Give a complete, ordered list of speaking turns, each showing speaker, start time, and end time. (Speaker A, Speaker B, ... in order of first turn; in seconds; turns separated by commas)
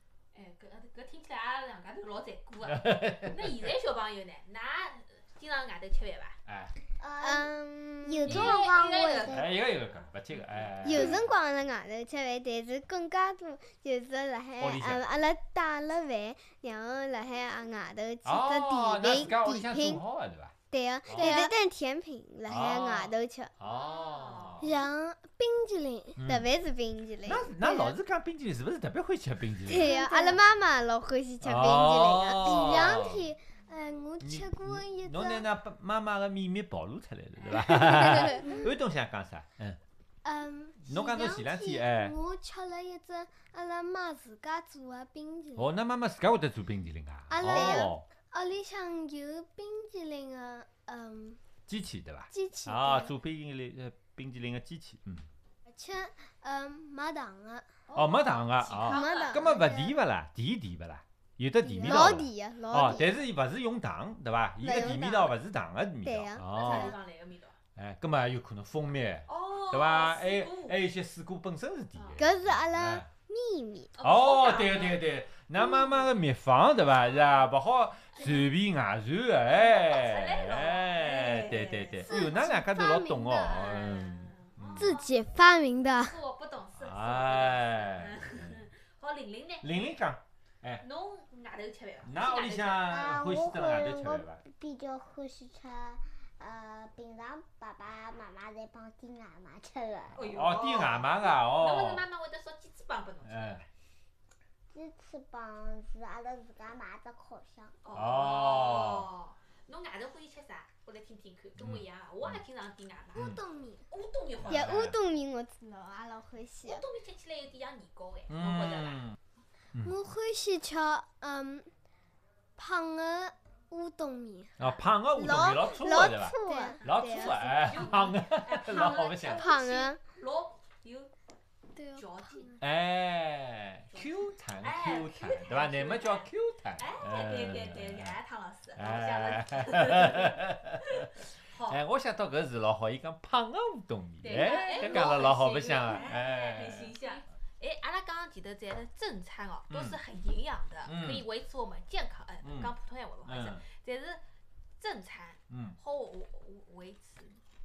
Speaker A: 0.3-6.4, Speaker B: 2.6-3.6, Speaker B: 6.5-6.7, Speaker C: 7.0-9.5, Speaker D: 7.2-8.5, Speaker A: 8.2-9.4, Speaker B: 9.3-11.3, Speaker A: 10.4-10.7, Speaker D: 10.8-20.0, Speaker B: 14.6-15.0, Speaker B: 18.2-20.5, Speaker D: 20.7-23.5, Speaker B: 21.1-21.5, Speaker E: 21.1-21.5, Speaker B: 22.4-24.7, Speaker A: 23.6-24.7, Speaker E: 24.6-26.2, Speaker B: 26.2-26.5, Speaker D: 26.2-27.9, Speaker B: 27.2-29.9, Speaker D: 29.6-33.0, Speaker E: 29.7-30.4, Speaker B: 31.4-33.2, Speaker E: 32.4-35.5, Speaker B: 34.2-39.8, Speaker A: 37.4-38.4, Speaker E: 40.2-45.7, Speaker B: 40.8-42.1, Speaker B: 45.5-48.0, Speaker E: 47.3-51.4, Speaker D: 47.4-47.9, Speaker B: 51.7-55.3, Speaker E: 52.3-53.1, Speaker E: 55.7-57.7, Speaker A: 57.9-59.5, Speaker B: 57.9-67.0, Speaker D: 58.9-59.6, Speaker E: 59.0-59.9, Speaker E: 61.6-62.2, Speaker D: 61.8-63.1, Speaker D: 64.6-65.3, Speaker D: 66.0-66.5, Speaker A: 66.5-67.5, Speaker E: 66.7-66.9, Speaker B: 67.8-73.1, Speaker A: 69.3-70.8, Speaker A: 71.9-72.2, Speaker D: 72.2-73.9, Speaker A: 74.0-75.0, Speaker B: 74.0-85.0, Speaker A: 78.1-78.5, Speaker A: 79.5-82.3, Speaker E: 82.1-83.8, Speaker A: 83.5-85.1, Speaker E: 84.8-86.2, Speaker A: 86.0-89.7, Speaker B: 86.8-88.6, Speaker B: 89.6-90.8, Speaker A: 90.8-93.0, Speaker B: 92.0-94.4, Speaker C: 92.8-100.3, Speaker A: 100.1-103.6, Speaker B: 100.2-102.0, Speaker B: 103.2-103.6, Speaker C: 104.7-107.7, Speaker A: 107.8-114.8, Speaker B: 107.9-109.1, Speaker B: 111.6-112.4, Speaker E: 113.2-113.8, Speaker B: 114.4-115.0, Speaker D: 114.5-116.8, Speaker A: 116.6-119.0, Speaker B: 118.3-119.2, Speaker E: 119.8-121.7, Speaker E: 122.6-124.6, Speaker B: 124.6-129.5, Speaker D: 125.2-127.8, Speaker E: 126.4-126.8, Speaker A: 126.8-131.1, Speaker D: 129.3-130.0, Speaker E: 131.8-132.6, Speaker A: 131.9-132.6, Speaker B: 132.6-138.1, Speaker A: 133.9-141.8, Speaker B: 138.7-146.9, Speaker A: 144.2-154.2, Speaker B: 149.7-150.0, Speaker B: 150.8-151.2, Speaker B: 152.4-152.7, Speaker B: 153.2-153.7, Speaker A: 154.8-157.4, Speaker B: 155.5-155.8